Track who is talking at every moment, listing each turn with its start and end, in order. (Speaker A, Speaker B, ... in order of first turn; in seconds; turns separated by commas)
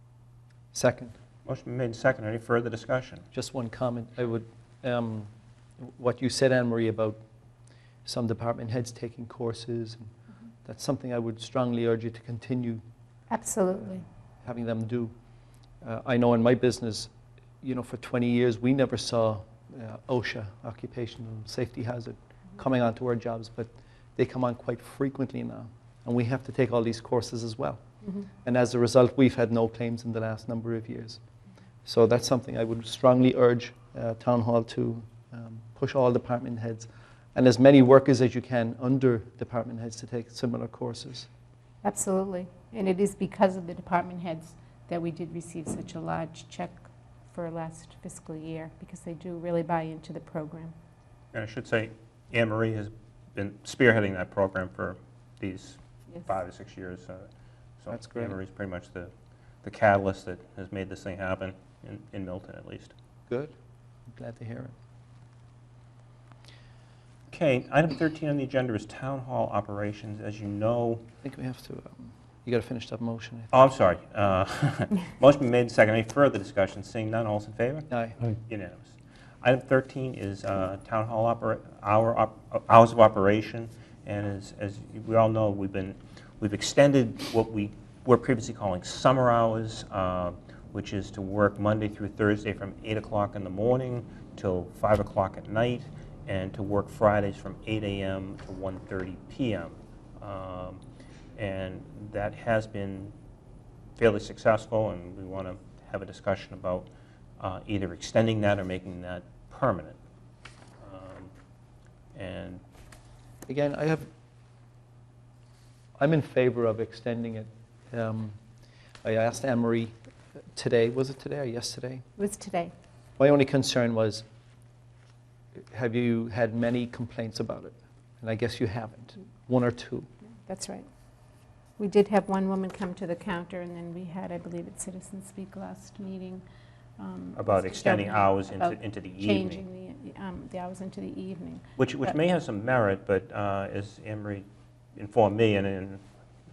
Speaker A: 0.7-1.1, Speaker B: 1.4-3.2, Speaker A: 3.3-7.2, Speaker A: 8.0-10.1, Speaker A: 10.6-12.8, Speaker C: 13.3-14.0, Speaker A: 14.4-15.1, Speaker A: 15.8-17.1, Speaker A: 17.6-27.8, Speaker A: 28.4-31.2, Speaker A: 31.8-41.3, Speaker C: 41.8-50.7, Speaker B: 51.3-57.3, Speaker B: 57.8-59.1, Speaker A: 57.9-58.4, Speaker B: 59.6-62.9, Speaker A: 63.3-63.5, Speaker A: 64.1-64.7, Speaker B: 67.3-71.0, Speaker A: 71.2-73.5, Speaker B: 73.5-77.9, Speaker A: 77.9-78.2, Speaker B: 78.5-100.8, Speaker B: 101.3-103.1, Speaker B: 104.0-110.0, Speaker B: 110.8-111.3, Speaker B: 112.1-112.6, Speaker A: 113.5-114.1, Speaker A: 116.0-118.4, Speaker A: 119.0-119.9, Speaker A: 120.5-122.0, Speaker C: 122.2-122.7, Speaker A: 123.2-124.2, Speaker A: 125.6-130.1, Speaker C: 130.5-130.9, Speaker C: 131.8-136.4, Speaker C: 137.0-142.2, Speaker B: 137.3-139.6, Speaker B: 141.8-146.0